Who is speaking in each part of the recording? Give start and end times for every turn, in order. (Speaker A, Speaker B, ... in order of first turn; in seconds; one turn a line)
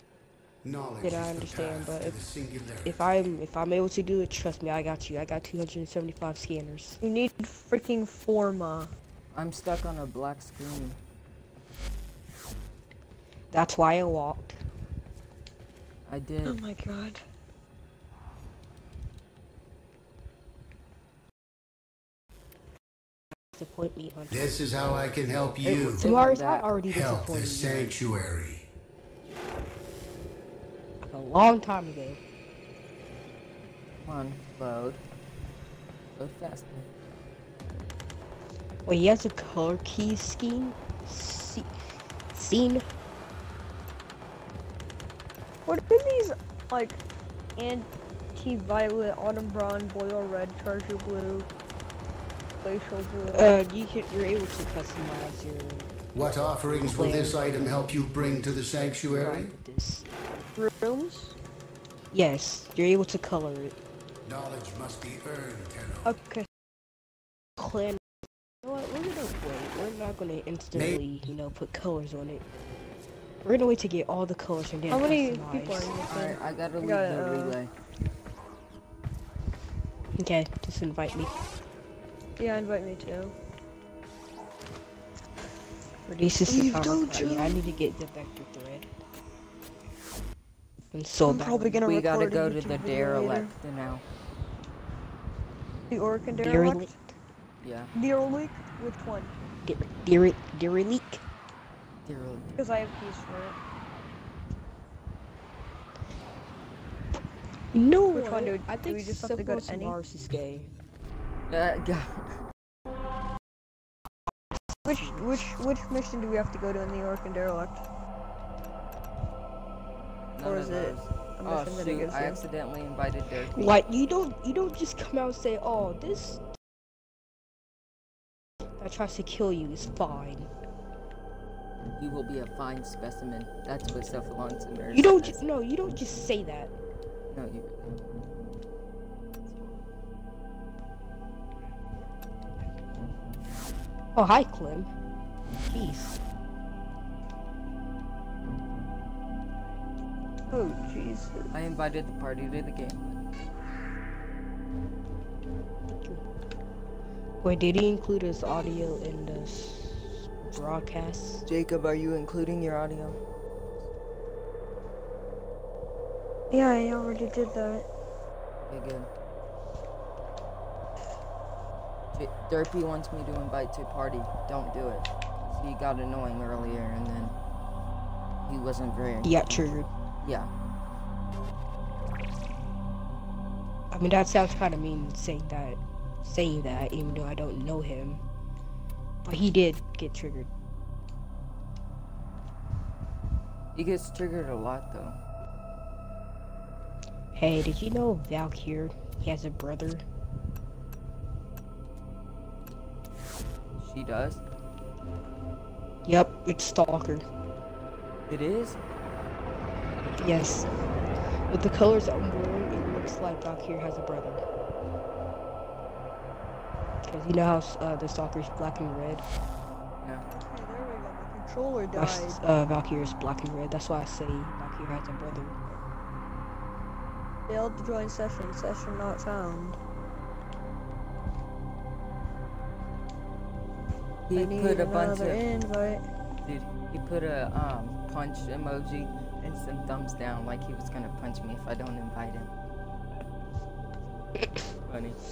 Speaker A: 0.6-3.0
Speaker B: 1.0-2.2
Speaker B: 2.8-7.0
Speaker C: 7.0-8.9
Speaker D: 9.3-11.0
Speaker B: 13.5-14.6
Speaker D: 16.1-16.6
Speaker C: 16.4-17.2
Speaker B: 23.5-24.7
Speaker A: 24.3-26.1
Speaker D: 25.6-26.7
Speaker B: 25.9-27.9
Speaker A: 26.9-28.7
Speaker D: 27.6-27.9
Speaker B: 31.0-32.2
Speaker D: 34.0-35.0
Speaker D: 36.1-36.9
Speaker B: 38.9-42.9
Speaker C: 45.6-47.0
Speaker C: 47.5-51.5
Speaker C: 52.6-53.6
Speaker B: 53.3-56.0
Speaker A: 56.1-59.5
Speaker B: 56.7-60.0
Speaker C: 60.5-61.3
Speaker B: 62.1-63.8
Speaker A: 64.2-66.2
Speaker C: 66.0-66.5
Speaker B: 67.6-68.0
Speaker B: 68.6-72.4
Speaker A: 70.7-71.0
Speaker B: 73.4-75.9
Speaker C: 74.9-77.6
Speaker D: 76.1-77.7
Speaker B: 80.2-81.3
Speaker C: 82.4-83.3
Speaker B: 86.0-88.9
Speaker C: 86.5-87.6
Speaker B: 90.9-91.7
Speaker C: 91.2-93.5
Speaker D: 91.8-94.0
Speaker C: 95.9-96.9
Speaker B: 96.3-97.1
Speaker D: 97.6-97.9
Speaker C: 97.9-99.3
Speaker B: 99.6-101.2
Speaker D: 102.0-102.5
Speaker C: 102.5-103.6
Speaker B: 107.7-110.7
Speaker C: 108.1-110.0
Speaker D: 111.5-112.4
Speaker C: 114.8-117.8
Speaker D: 120.3-123.8
Speaker C: 120.4-122.4
Speaker B: 123.5-126.5
Speaker B: 128.8-130.5
Speaker D: 132.0-135.4
Speaker B: 134.9-136.7
Speaker D: 137.3-138.0
Speaker D: 139.4-139.8
Speaker B: 144.1-144.9
Speaker B: 145.6-146.2
Speaker C: 150.5-151.5
Speaker D: 151.5-153.2
Speaker B: 155.9-156.2
Speaker B: 157.4-161.4
Speaker D: 161.4-163.2
Speaker C: 166.5-167.9
Speaker D: 168.6-169.1
Speaker D: 172.1-177.3
Speaker D: 178.4-179.7
Speaker B: 179.2-179.9
Speaker D: 180.2-180.5
Speaker B: 183.9-188.2
Speaker B: 189.2-190.5
Speaker D: 193.7-195.2
Speaker B: 197.3-200.0
Speaker D: 203.8-204.4
Speaker B: 206.0-207.2
Speaker D: 208.3-208.8
Speaker B: 210.2-210.7
Speaker B: 211.5-214.4
Speaker B: 217.0-219.2
Speaker D: 220.0-220.2
Speaker C: 220.4-222.4
Speaker B: 221.9-225.8
Speaker C: 227.5-229.8
Speaker D: 234.3-235.4
Speaker C: 234.3-236.1
Speaker D: 236.4-242.5
Speaker D: 244.8-245.2